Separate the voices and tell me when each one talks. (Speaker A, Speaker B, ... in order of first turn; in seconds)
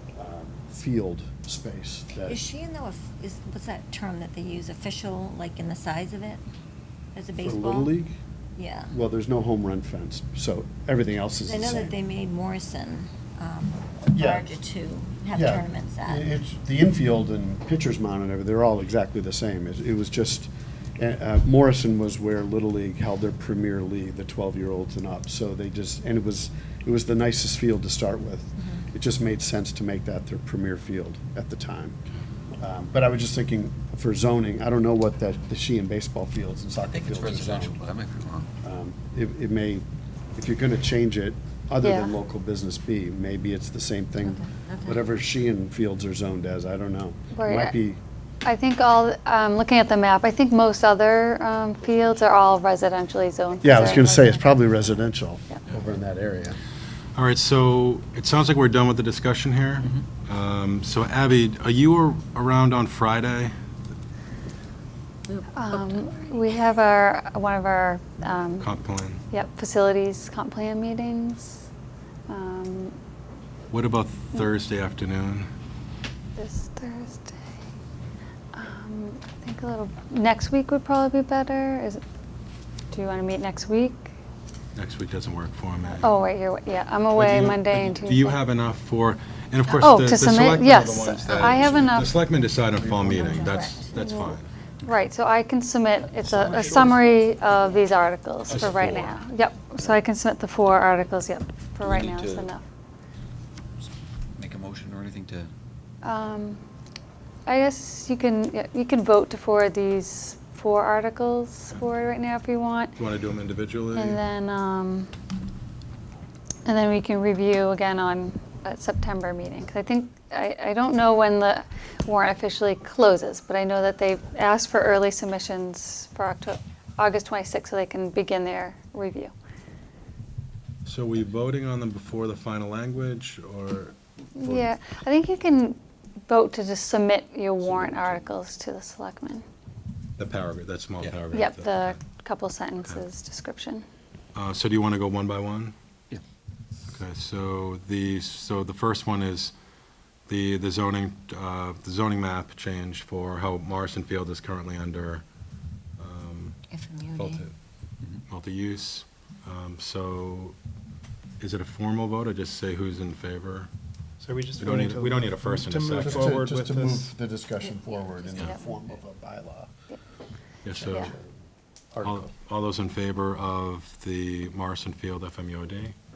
Speaker A: 0.2-2.4, 7.4-8.2, 8.9-12.0, 14.1-14.6, 15.3-32.0, 32.6-37.8, 38.6-48.0, 53.6-56.6, 92.8-93.6, 166.0-169.7, 170.7-171.2, 171.9-172.3
Speaker B: 2.2-6.4, 7.2-8.0, 8.6-8.9, 11.5-16.3, 44.2-45.1, 65.3-66.4, 93.1-93.9, 156.7-157.5
Speaker C: 36.8-38.5, 96.3-97.0, 101.8-102.5, 104.3-105.5
Speaker D: 41.8-42.1, 47.3-47.8, 48.5-54.7, 65.5-68.7, 69.3-71.7, 72.3-73.0, 76.4-77.5, 78.5-82.0, 82.9-84.1, 86.0-88.4, 89.7-92.1, 93.9-102.6, 106.0-106.6, 107.5-113.0, 113.9-115.1, 116.7-129.3, 134.4-139.4, 141.3-143.8, 170.8-171.1
Speaker E: 57.1-63.5, 68.6-69.2, 73.7-75.5, 84.8-86.2, 87.2-94.5, 98.5-99.2, 113.0-114.2, 130.8-134.7, 140.2-142.0, 144.3-145.7, 146.9-149.5, 150.3-155.2, 156.0-157.5, 158.3-160.6, 161.4-163.7, 164.6-166.4, 170.6-171.1, 172.0-175.9
Speaker F: 164.2-167.1